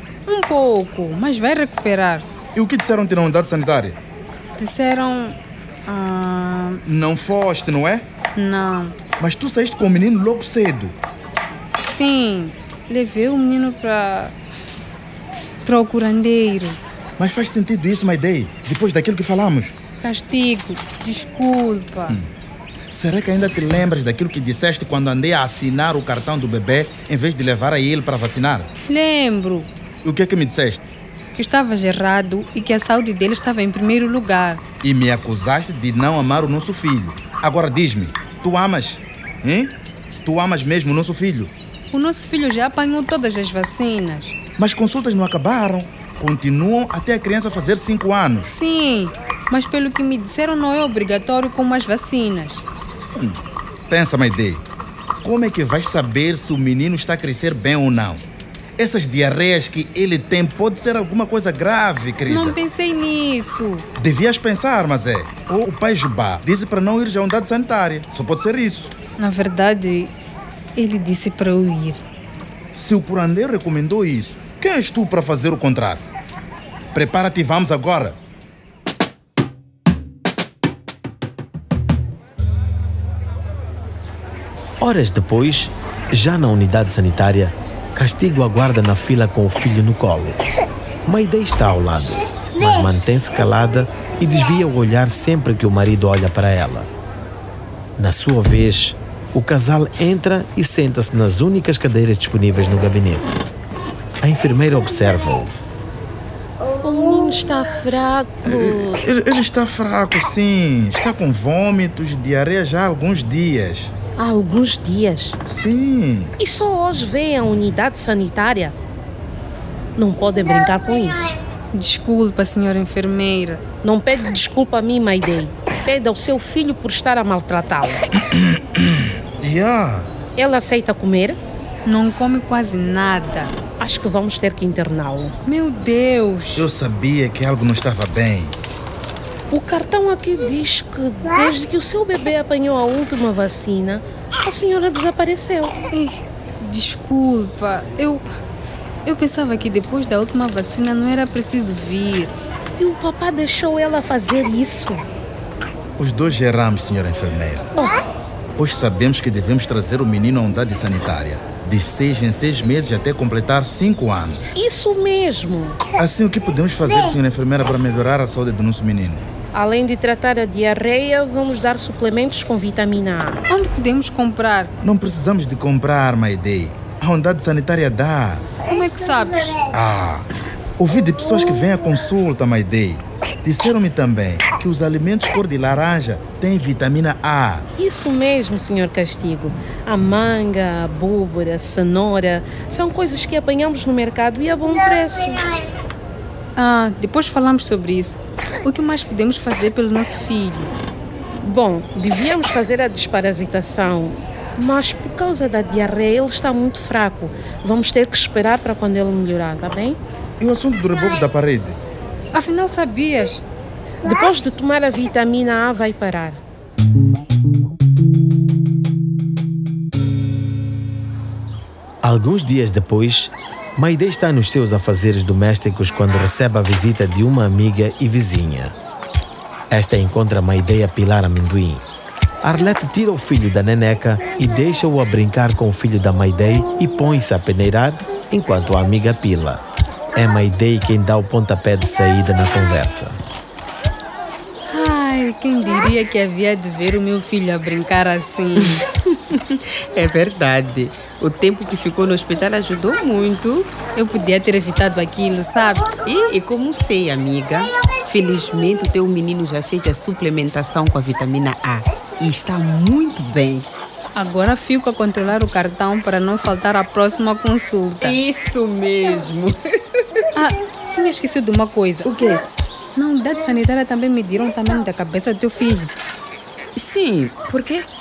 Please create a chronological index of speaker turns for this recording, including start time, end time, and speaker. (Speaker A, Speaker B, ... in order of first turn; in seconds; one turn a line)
Speaker A: 0.2-2.2
Speaker B: 2.5-4.0
Speaker A: 4.6-6.8
Speaker B: 6.8-8.0
Speaker A: 8.3-8.9
Speaker B: 9.2-10.9
Speaker A: 11.8-14.3
Speaker A: 15.6-16.8
Speaker B: 17.2-19.7
Speaker A: 20.0-22.2
Speaker B: 22.9-28.7
Speaker A: 28.9-29.7
Speaker B: 30.0-30.8
Speaker A: 31.4-34.6
Speaker B: 34.8-41.5
Speaker A: 41.9-44.3
Speaker B: 44.6-48.5
Speaker A: 48.4-52.6
Speaker B: 53.1-54.6
Speaker B: 55.2-58.2
Speaker B: 58.8-62.5
Speaker A: 62.3-63.8
Speaker B: 64.0-68.9
Speaker A: 69.2-70.1
Speaker A: 70.7-72.0
Speaker B: 72.7-76.0
Speaker B: 76.9-78.2
Speaker C: 84.8-90.4
Speaker C: 91.0-96.9
Speaker C: 98.0-103.3
Speaker C: 104.2-105.5
Speaker D: 106.8-109.0
Speaker B: 108.4-114.0
Speaker D: 114.1-115.4
Speaker B: 115.4-116.3
Speaker D: 116.4-118.7
Speaker D: 120.0-121.3
Speaker A: 121.7-123.6
Speaker D: 123.8-128.0
Speaker B: 128.3-130.2
Speaker D: 130.3-131.4
Speaker A: 131.8-133.5
Speaker D: 133.8-135.3
Speaker A: 135.4-136.7
Speaker B: 136.6-138.6
Speaker D: 139.5-145.8
Speaker A: 145.9-148.2
Speaker A: 149.0-152.3
Speaker D: 152.8-155.0
Speaker B: 156.0-157.7
Speaker B: 158.6-164.5
Speaker D: 164.5-165.8
Speaker B: 165.9-169.2
Speaker D: 169.5-173.4
Speaker A: 173.5-174.7
Speaker B: 174.8-178.4
Speaker A: 178.7-179.5
Speaker B: 179.7-180.2
Speaker B: 180.8-187.7
Speaker D: 187.8-195.5
Speaker A: 196.6-200.7
Speaker D: 201.4-210.0
Speaker B: 210.4-211.8
Speaker A: 212.3-213.4
Speaker D: 214.0-216.4
Speaker C: 222.0-228.7
Speaker C: 229.7-231.8
Speaker C: 232.4-239.6
Speaker C: 240.1-243.1
Speaker A: 244.7-248.8
Speaker E: 248.6-253.7
Speaker A: 253.9-255.9
Speaker E: 256.1-263.7
Speaker A: 264.1-268.2
Speaker E: 268.0-269.6
Speaker A: 270.3-272.1
Speaker E: 272.0-272.4
Speaker A: 272.9-275.9
Speaker E: 276.8-277.9